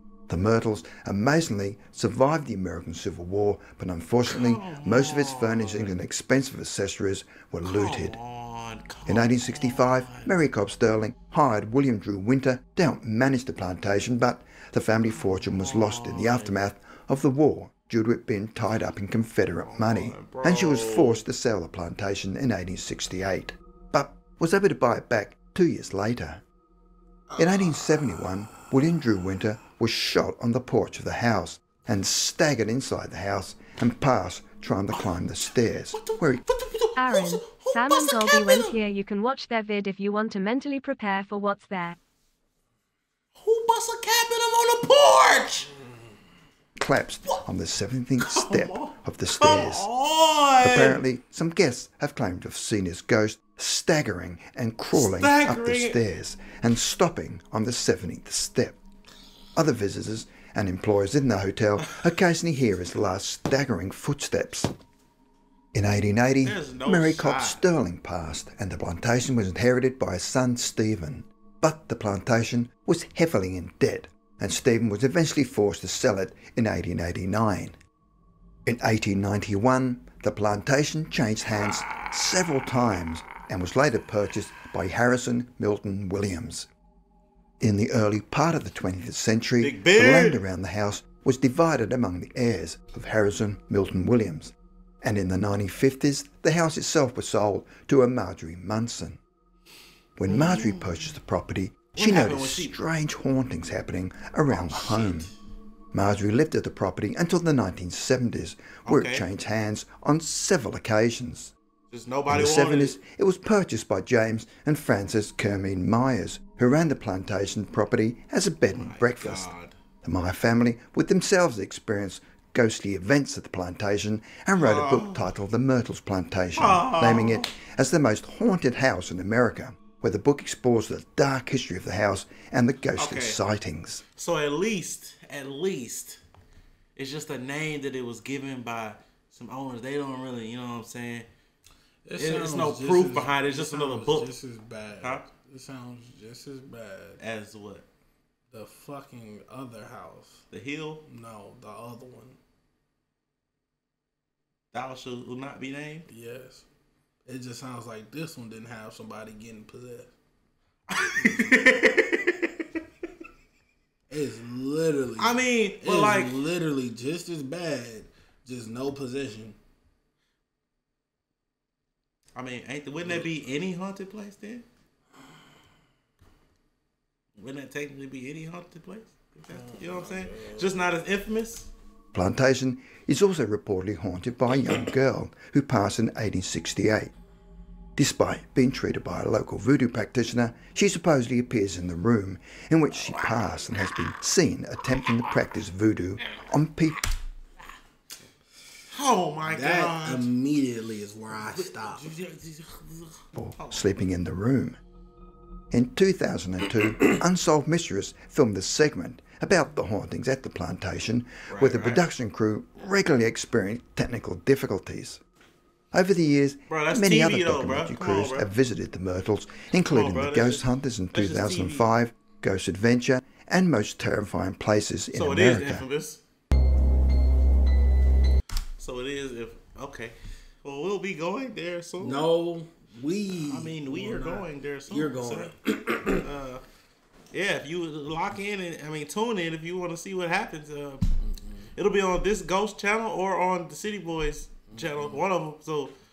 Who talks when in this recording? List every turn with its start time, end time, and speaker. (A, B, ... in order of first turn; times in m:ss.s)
0:00.3-0:08.2 A
0:04.2-0:06.0 B
0:07.6-0:10.3 B
0:09.1-0:26.4 A
0:15.2-0:16.7 B
0:19.6-0:21.2 B
0:27.3-0:27.8 B
0:27.4-0:36.4 A
0:35.9-0:38.8 B
0:37.0-0:42.0 C
0:43.4-0:45.7 B
0:46.8-0:49.9 A
0:48.2-0:51.0 B
0:50.6-0:58.8 A
0:54.9-0:56.0 B
0:59.6-1:04.7 A
1:05.7-1:17.8 A
1:06.4-1:07.6 B
1:18.6-1:26.7 A
1:27.6-1:39.2 A
1:29.6-1:30.4 B
1:40.2-1:45.3 A
1:40.3-1:41.2 B
1:42.0-1:42.8 B
1:44.5-1:45.2 D
1:45.9-1:51.5 A
1:48.9-1:49.3 B
1:51.9-1:53.0 B
1:52.3-1:59.5 A
1:58.7-1:59.8 B
2:00.0-2:14.0 A
2:04.6-2:05.3 B
2:06.6-2:07.5 B
2:13.0-2:13.4 B
2:14.1-2:16.2 B
2:17.0-2:21.3 B
2:22.0-2:27.2 D
2:22.2-2:24.3 B
2:25.0-2:25.3 B
2:27.2-2:27.9 B
2:28.5-2:30.5 D
2:30.5-2:31.0 B
2:31.0-2:32.4 D
2:34.7-2:36.1 B
2:36.1-2:36.6 D
2:37.2-2:40.1 D
2:40.9-2:42.6 B
2:41.1-2:41.5 D
2:44.1-2:49.6 D
2:45.2-2:46.4 B
2:52.4-2:54.6 B
2:57.4-3:01.7 B
3:02.1-3:07.1 A
3:08.0-3:17.0 A
3:13.0-3:13.6 B
3:18.9-3:20.3 B
3:19.4-3:22.1 D
3:21.3-3:23.9 B
3:23.4-3:24.8 A
3:25.7-3:35.2 A
3:31.5-3:32.1 B
3:35.9-3:45.8 A
3:36.7-3:38.5 B
3:39.8-3:41.9 B
3:45.1-3:46.2 B
3:48.8-3:52.3 B
3:52.0-3:56.2 D
3:53.3-3:56.6 B
3:57.3-4:01.0 B
4:01.2-4:01.7 D
4:01.8-4:05.9 B
4:04.7-4:05.2 D